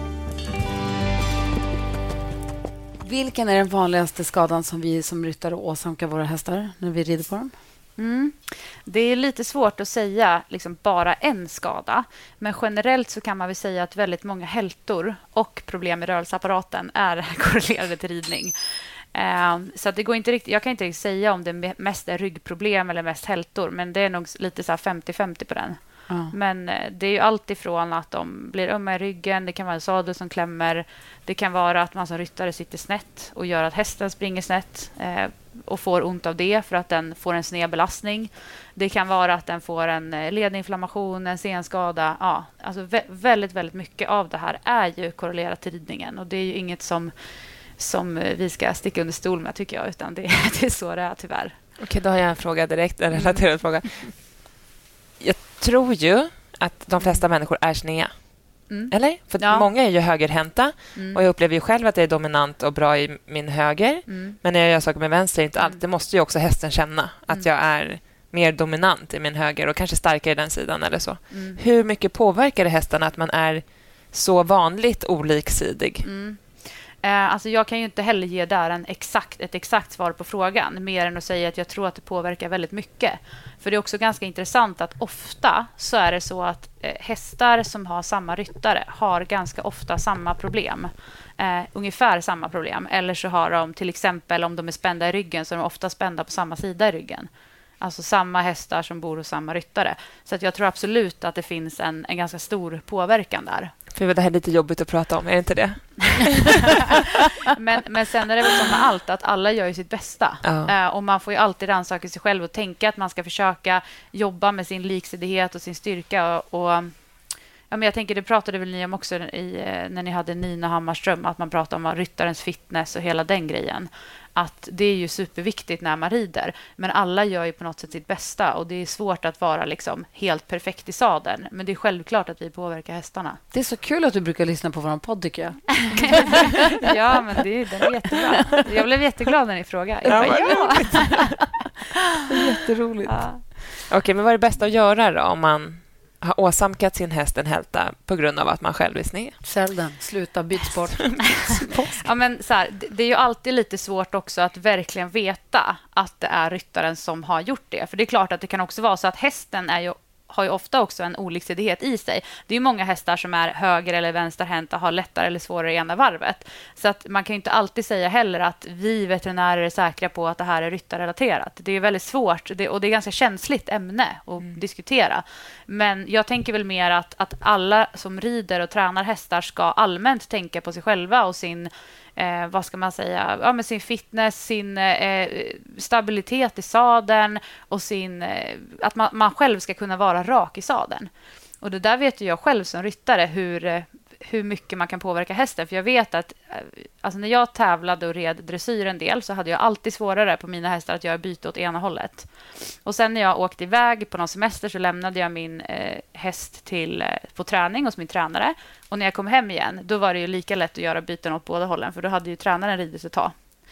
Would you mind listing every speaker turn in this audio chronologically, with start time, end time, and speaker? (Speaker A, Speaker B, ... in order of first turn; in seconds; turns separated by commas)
Speaker A: 3.0-7.5, Speaker B: 8.0-18.5, Speaker B: 19.1-47.1, Speaker A: 26.1-26.3, Speaker B: 47.7-51.5, Speaker C: 51.8-54.3, Speaker B: 53.1-53.4, Speaker C: 55.2-76.0, Speaker B: 58.7-59.7, Speaker B: 61.0-61.2, Speaker B: 64.1-64.3, Speaker B: 71.3-71.6, Speaker B: 76.0-97.3, Speaker B: 97.8-103.7, Speaker C: 103.9-107.0, Speaker B: 107.5-116.9, Speaker C: 110.4-110.7, Speaker B: 117.7-133.4, Speaker A: 133.5-136.8, Speaker B: 135.8-141.3, Speaker A: 140.0-141.1, Speaker C: 140.1-141.5, Speaker A: 142.3-143.4, Speaker B: 143.1-143.4, Speaker C: 143.9-149.4, Speaker A: 149.4-151.8, Speaker B: 151.8-191.1, Speaker B: 191.6-213.3